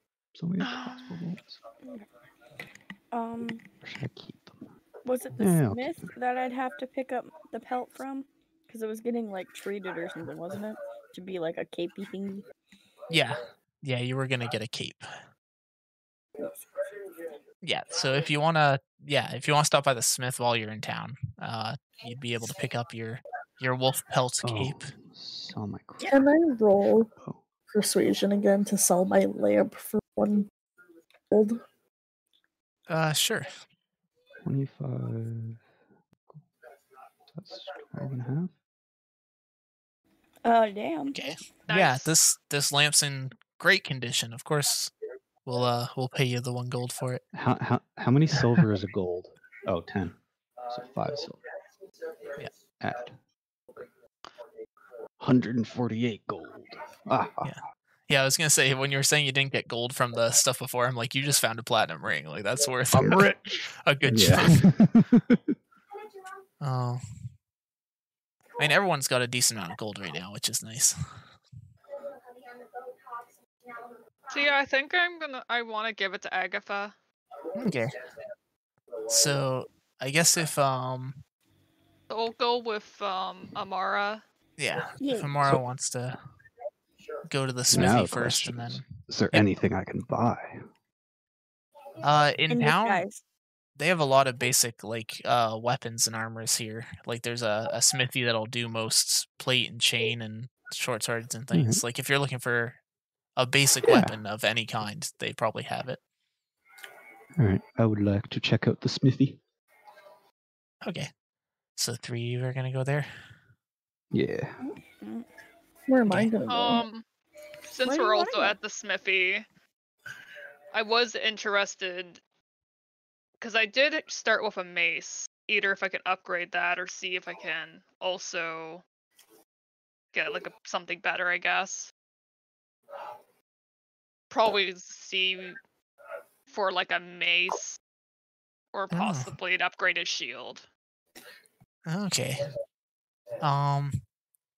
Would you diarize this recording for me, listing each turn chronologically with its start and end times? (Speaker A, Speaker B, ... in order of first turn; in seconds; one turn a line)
Speaker A: 0.4-1.5
Speaker B: 0.6-1.3
Speaker C: 3.1-3.6
Speaker A: 3.8-4.5
Speaker C: 5.0-12.4
Speaker A: 5.4-5.9
Speaker D: 13.1-15.1
Speaker D: 17.6-24.9
Speaker A: 24.4-26.0
Speaker E: 26.0-27.1
Speaker E: 27.7-30.5
Speaker E: 31.3-31.6
Speaker D: 32.9-33.5
Speaker A: 34.5-35.5
Speaker A: 37.4-38.5
Speaker C: 40.5-41.2
Speaker D: 41.1-44.9
Speaker B: 41.7-42.1
Speaker D: 45.5-47.2
Speaker A: 47.4-50.1
Speaker A: 50.8-51.3
Speaker A: 52.8-53.1
Speaker A: 55.2-57.5
Speaker D: 57.4-64.7
Speaker A: 63.0-63.4
Speaker A: 64.1-64.5
Speaker D: 66.6-67.0
Speaker D: 68.6-71.0
Speaker B: 74.3-76.9
Speaker D: 77.5-78.0
Speaker D: 79.1-81.2
Speaker B: 82.1-84.2
Speaker D: 84.6-86.2
Speaker C: 85.0-85.4
Speaker D: 87.3-89.5
Speaker A: 87.7-90.4
Speaker D: 92.0-93.0
Speaker C: 92.5-93.2
Speaker D: 93.8-102.8
Speaker D: 103.4-106.0
Speaker A: 107.4-109.3
Speaker D: 110.8-111.1
Speaker D: 111.8-113.1
Speaker A: 114.1-114.4
Speaker C: 114.6-115.3
Speaker E: 115.9-116.8
Speaker B: 116.5-117.0
Speaker B: 117.7-119.5
Speaker C: 117.9-118.6
Speaker B: 120.7-122.2
Speaker B: 123.4-128.8
Speaker B: 130.1-131.9
Speaker B: 134.3-135.6
Speaker B: 136.5-137.8
Speaker B: 138.7-140.7
Speaker D: 138.9-139.3
Speaker D: 141.9-142.5
Speaker D: 143.4-144.0